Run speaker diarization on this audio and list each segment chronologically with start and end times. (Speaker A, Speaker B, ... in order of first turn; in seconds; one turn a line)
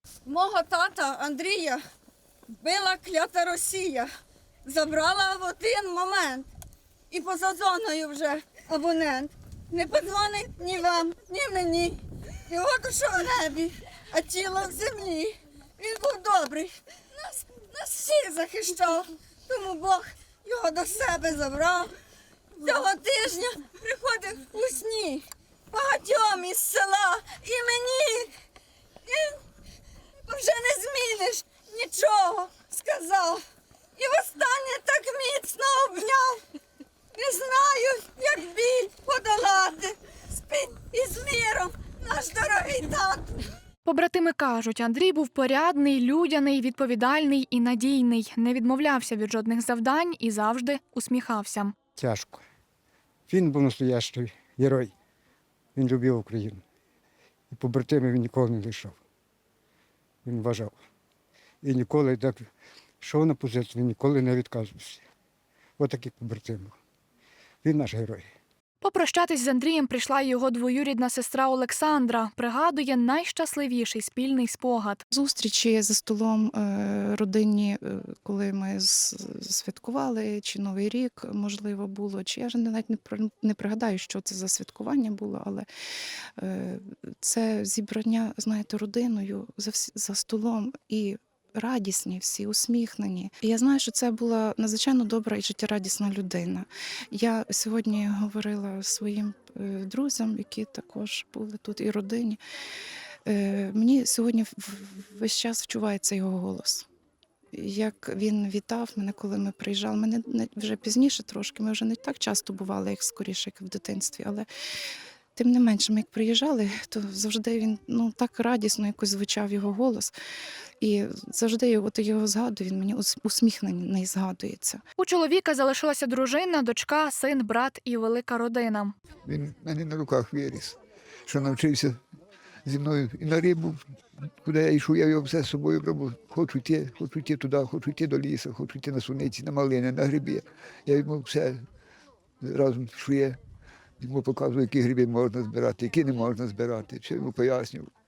Speaker A: 0.3-1.8
Speaker A: 2.6-4.1
Speaker A: 4.7-6.5
Speaker A: 7.1-21.9
Speaker A: 22.6-28.4
Speaker A: 29.1-29.4
Speaker A: 30.3-33.5
Speaker A: 34.0-36.4
Speaker A: 37.1-43.5
Speaker B: 43.9-51.7
Speaker C: 52.0-52.4
Speaker C: 53.3-54.9
Speaker C: 55.8-56.6
Speaker C: 57.5-59.0
Speaker C: 60.2-60.8
Speaker C: 61.6-62.5
Speaker C: 63.0-65.0
Speaker C: 65.8-66.8
Speaker C: 67.6-68.3
Speaker B: 68.8-75.0
Speaker D: 75.1-85.7
Speaker D: 86.4-102.4
Speaker D: 103.3-106.8
Speaker D: 107.5-114.5
Speaker D: 115.4-120.1
Speaker D: 120.8-124.8
Speaker B: 125.0-128.9
Speaker E: 129.3-132.0
Speaker E: 132.7-133.8
Speaker E: 134.4-141.7
Speaker E: 142.4-143.4
Speaker E: 144.0-147.9